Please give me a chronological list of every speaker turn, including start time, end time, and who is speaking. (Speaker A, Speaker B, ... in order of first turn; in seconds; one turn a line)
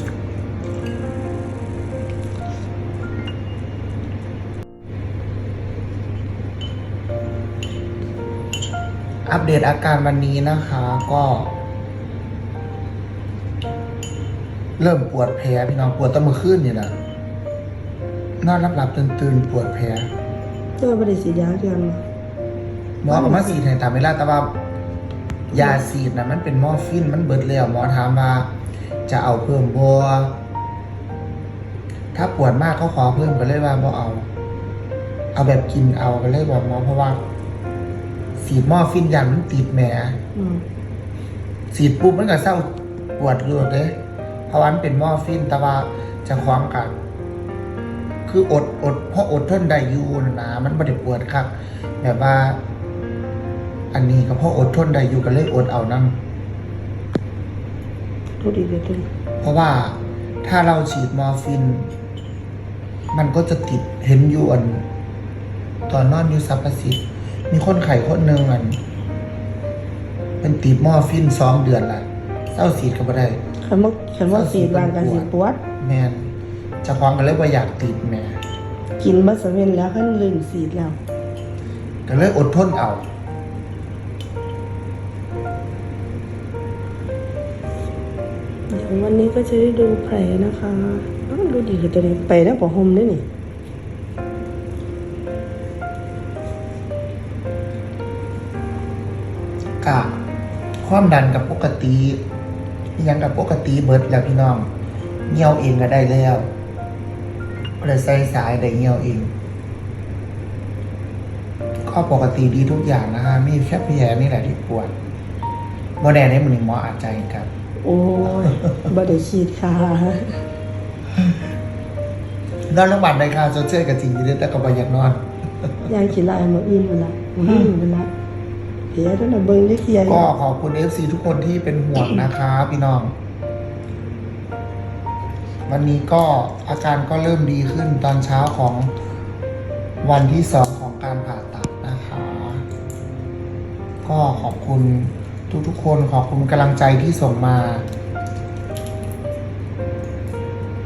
Speaker A: 9.2-11.5
Speaker A: 14.8-16.9
Speaker A: 18.4-20.1
Speaker B: 20.8-22.0
Speaker A: 23.0-24.6
Speaker B: 23.1-23.6
Speaker A: 25.5-28.5
Speaker B: 25.5-25.8
Speaker A: 29.1-30.4
Speaker A: 32.1-34.3
Speaker A: 35.3-37.2
Speaker A: 38.4-40.2
Speaker B: 40.3-40.6
Speaker A: 41.7-44.0
Speaker A: 44.5-46.9
Speaker A: 48.2-52.6
Speaker A: 53.9-56.2
Speaker B: 58.4-59.1
Speaker A: 59.4-61.9
Speaker A: 63.1-64.8
Speaker A: 65.9-68.8
Speaker A: 70.4-73.4
Speaker B: 73.6-75.6
Speaker A: 74.3-76.3
Speaker A: 76.8-78.4
Speaker B: 79.0-81.0
Speaker A: 82.0-83.1
Speaker B: 88.7-93.2
Speaker A: 99.8-100.1
Speaker A: 100.8-102.2
Speaker A: 103.0-104.7
Speaker A: 105.3-106.5
Speaker A: 107.8-109.3
Speaker A: 111.9-114.9
Speaker A: 116.0-117.5
Speaker B: 117.8-120.4
Speaker A: 122.7-125.7
Speaker B: 125.9-128.1
Speaker B: 128.9-130.3
Speaker A: 130.0-133.1
Speaker A: 135.7-138.9
Speaker A: 140.0-142.7
Speaker A: 144.0-147.8